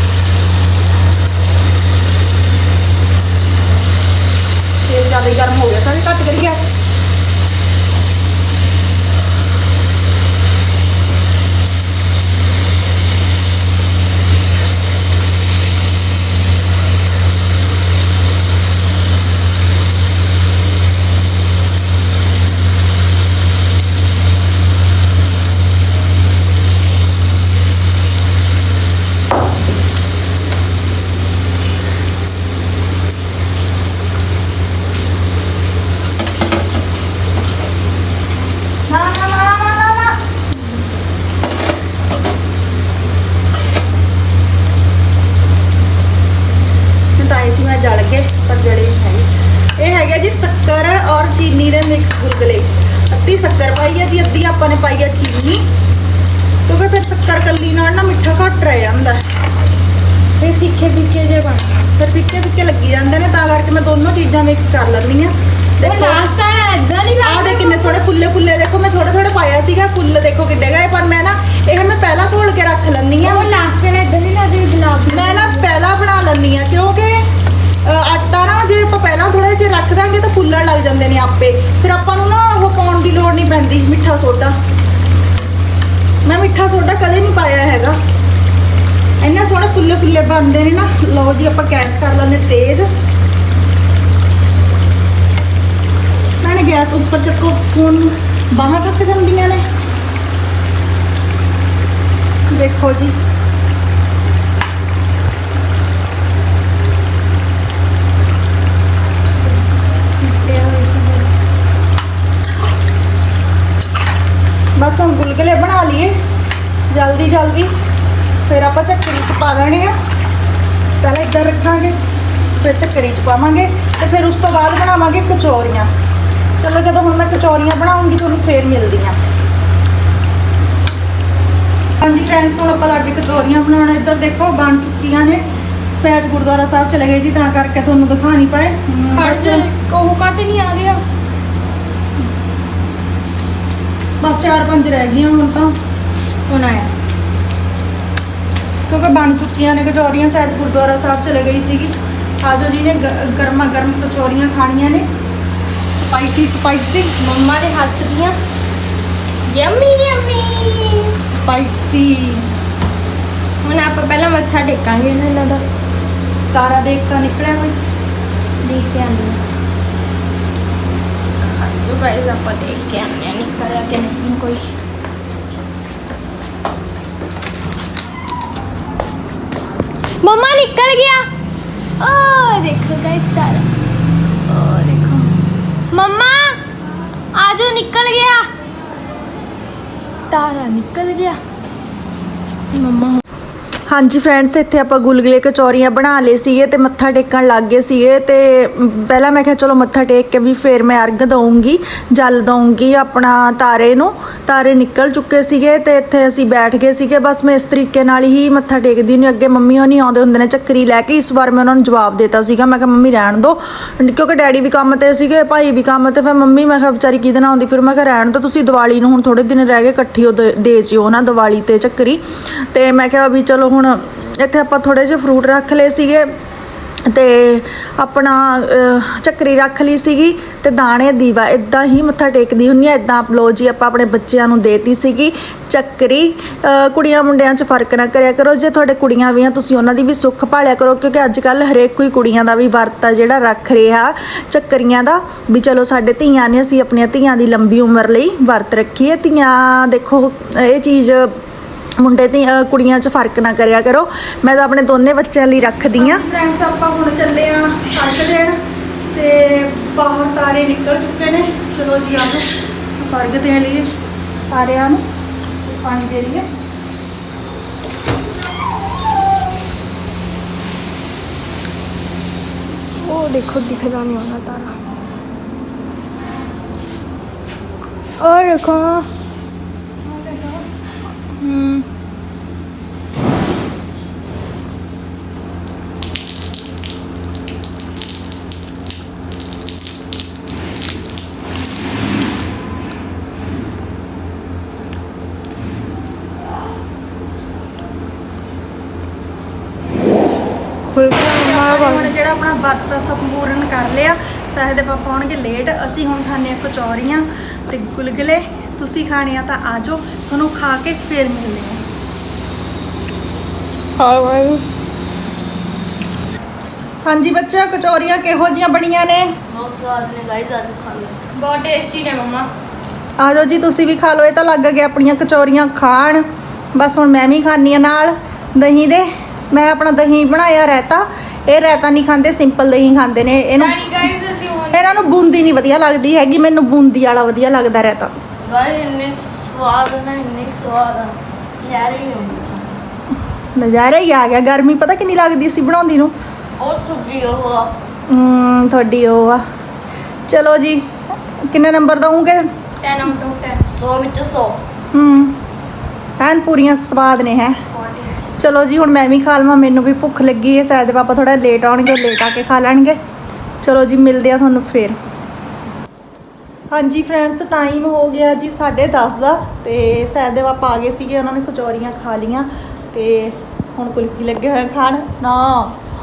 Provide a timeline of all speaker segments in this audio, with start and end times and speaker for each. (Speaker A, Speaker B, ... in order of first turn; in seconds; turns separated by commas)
Speaker A: 4.9-6.7, Speaker A: 38.9-40.2, Speaker A: 47.1-55.6, Speaker A: 56.7-59.2, Speaker B: 60.4-61.9, Speaker A: 62.0-66.3, Speaker B: 65.8-68.0, Speaker A: 67.2-73.5, Speaker B: 73.2-75.7, Speaker A: 75.1-77.3, Speaker A: 77.8-84.5, Speaker A: 86.2-88.0, Speaker A: 89.2-92.9, Speaker A: 96.4-99.6, Speaker A: 102.5-103.2, Speaker B: 110.2-111.3, Speaker A: 114.8-116.2, Speaker A: 116.9-117.7, Speaker A: 118.4-120.0, Speaker A: 121.0-122.0, Speaker A: 122.6-125.9, Speaker A: 126.6-129.2, Speaker A: 132.0-135.4, Speaker A: 136.0-139.7, Speaker B: 139.1-141.0, Speaker A: 144.2-145.8, Speaker B: 146.5-146.9, Speaker A: 148.9-155.1, Speaker A: 156.0-157.1, Speaker B: 157.2-158.4, Speaker B: 159.5-161.2, Speaker A: 161.2-162.5, Speaker B: 163.6-165.7, Speaker A: 166.5-167.8, Speaker B: 168.6-169.4, Speaker B: 171.4-174.7, Speaker B: 180.2-181.3, Speaker B: 182.0-183.7, Speaker B: 184.5-185.4, Speaker B: 185.9-186.6, Speaker B: 187.3-188.5, Speaker B: 190.3-191.4, Speaker B: 192.7-193.2, Speaker A: 193.9-226.3, Speaker A: 227.1-251.3, Speaker A: 252.0-258.6, Speaker A: 259.1-263.9, Speaker A: 264.5-265.0, Speaker A: 265.6-266.5, Speaker B: 273.0-274.8, Speaker B: 278.2-279.1, Speaker A: 280.0-280.6, Speaker B: 281.4-281.9, Speaker B: 300.9-302.1, Speaker A: 301.3-311.8, Speaker B: 314.0-314.6, Speaker A: 317.0-319.3, Speaker C: 319.5-321.3, Speaker B: 321.3-322.5, Speaker A: 323.2-326.2, Speaker A: 326.8-333.8, Speaker B: 333.6-335.2, Speaker A: 334.7-338.1, Speaker C: 338.4-342.7, Speaker A: 343.6-346.1, Speaker C: 346.6-347.8, Speaker A: 348.1-349.4, Speaker A: 350.3-352.5, Speaker B: 352.8-353.7, Speaker C: 353.7-354.6, Speaker A: 354.9-355.4, Speaker A: 356.2-357.6, Speaker B: 357.7-358.4, Speaker A: 358.4-363.0, Speaker A: 363.6-365.0, Speaker A: 366.7-375.8